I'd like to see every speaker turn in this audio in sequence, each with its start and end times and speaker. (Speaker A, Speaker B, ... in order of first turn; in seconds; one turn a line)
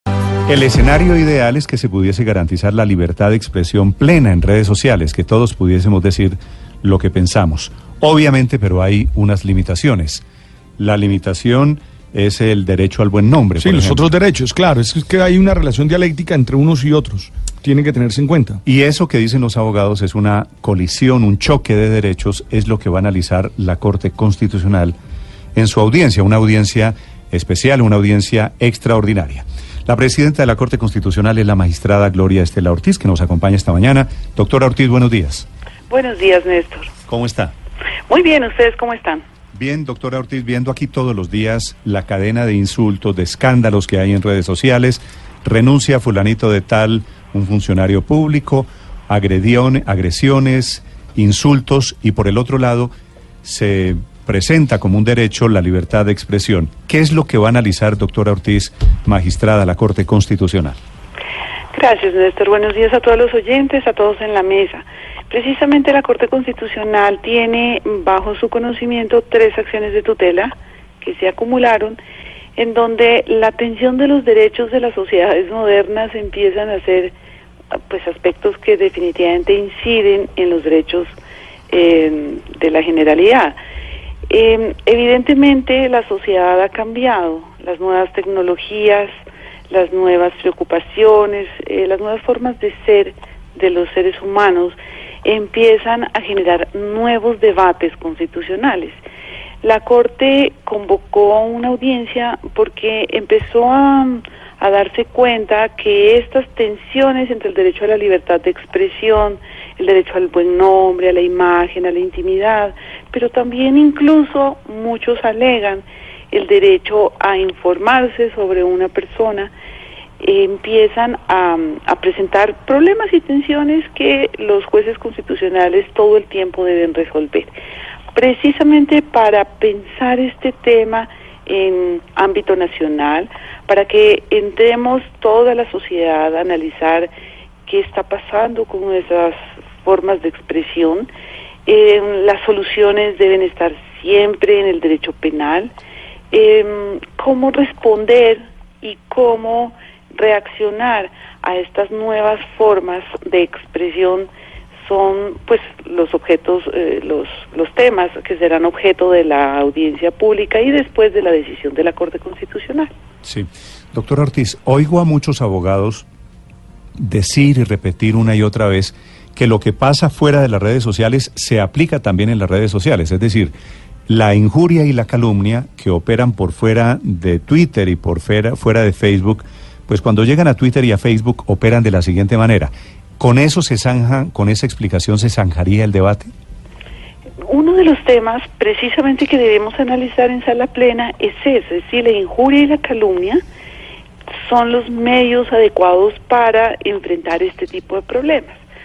Speaker A: 0.5-10.2
Speaker A: 10.8-14.0
Speaker B: 13.6-18.6
Speaker A: 18.6-24.9
Speaker A: 25.5-35.5
Speaker C: 35.9-36.9
Speaker A: 37.1-37.5
Speaker C: 38.1-39.2
Speaker A: 39.5-52.9
Speaker A: 53.4-60.8
Speaker C: 61.7-72.0
Speaker C: 72.5-77.1
Speaker C: 77.9-81.1
Speaker C: 81.7-83.6
Speaker C: 84.3-89.1
Speaker C: 89.7-99.0
Speaker C: 99.6-119.5
Speaker C: 120.2-127.5
Speaker C: 128.1-137.1
Speaker C: 137.6-141.1
Speaker C: 141.7-145.7
Speaker C: 146.3-162.9
Speaker A: 163.2-166.1
Speaker A: 167.0-173.5
Speaker A: 174.1-186.3
Speaker C: 187.5-193.4
Speaker C: 194.4-198.6